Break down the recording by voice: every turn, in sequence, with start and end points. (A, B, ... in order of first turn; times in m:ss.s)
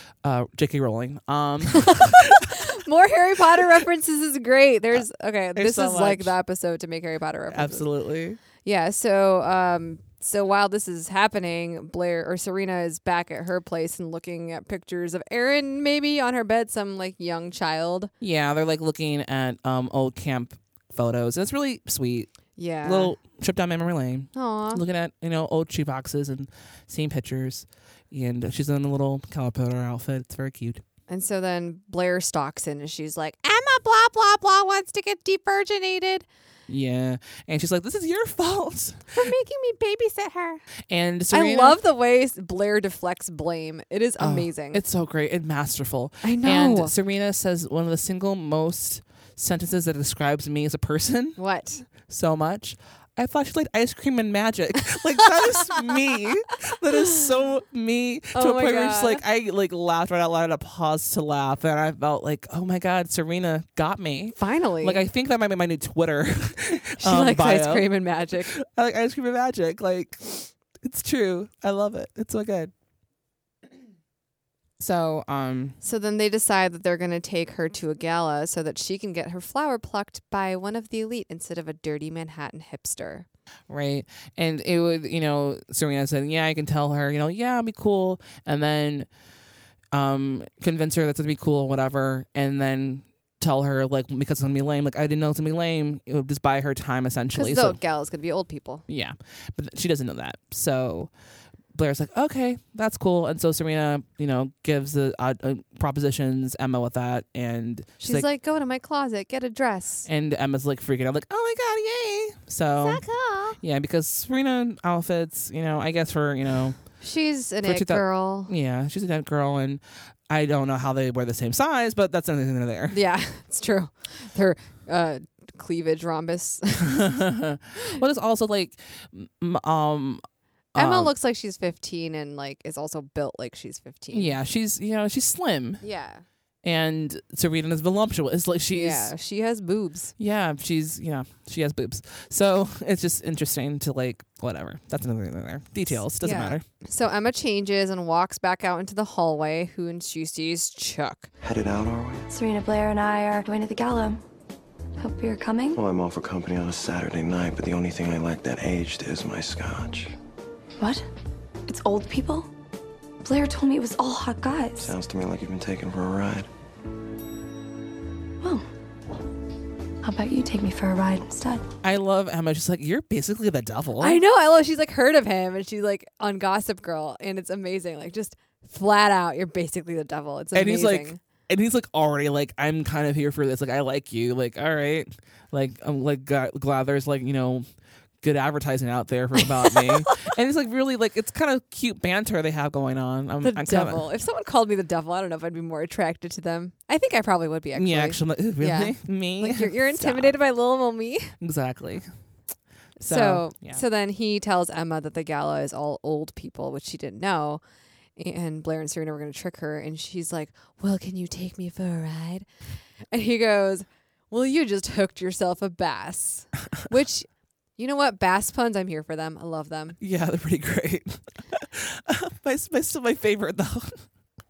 0:00.2-0:02.5 A
0:01.8-0:07.8 B
0:05.5-0:06.3 A
0:07.5-0:08.4 A
0:08.6-0:18.1 B
0:18.2-0:30.8 A
0:22.6-0:23.2 B
0:24.3-0:24.8 B
0:31.1-0:36.2 B
0:36.7-0:39.2 A
0:39.1-0:40.6 B
0:40.9-0:41.8 A
0:41.3-0:44.8 B
0:44.2-0:51.4 A
0:46.2-0:46.9 B
0:51.4-0:51.8 B
0:52.0-1:12.7 A
0:58.3-0:59.2 B
1:04.3-1:05.0 B
1:07.0-1:08.5 B
1:14.8-1:15.8 A
1:15.8-1:23.2 B
1:23.7-1:29.1 A
1:29.9-1:37.8 A
1:37.3-1:38.8 B
1:38.9-1:41.1 A
1:41.7-1:48.3 A
1:48.0-1:50.1 B
1:50.0-1:53.0 A
1:52.8-1:53.6 B
1:53.6-1:56.8 A
1:57.0-1:58.5 B
1:57.6-2:03.0 A
2:02.9-2:07.1 B
2:06.8-2:10.2 A
2:10.7-2:11.1 A
2:10.8-2:14.4 B
2:14.1-2:15.8 A
2:15.8-2:16.2 B
2:16.6-2:19.1 A
2:18.7-2:20.1 B
2:20.2-2:26.6 A
2:26.2-2:31.3 B
2:31.4-2:32.2 C
2:32.3-2:34.2 D
2:35.0-2:35.8 D
2:35.7-2:40.1 C
2:40.8-2:41.0 D
2:41.7-2:42.5 D
2:43.2-2:44.9 D
2:44.8-2:46.5 C
2:48.4-2:48.7 D
2:50.0-2:51.6 D
2:51.8-2:54.2 A
2:54.0-3:01.2 B
3:00.5-3:07.6 A
3:08.2-3:14.1 A
3:13.4-3:21.3 B
3:17.7-3:20.4 A
3:21.4-3:22.1 A
3:23.0-3:23.8 A
3:23.0-3:27.6 B
3:28.2-3:32.5 B
3:33.1-3:40.0 B
3:40.0-3:44.0 A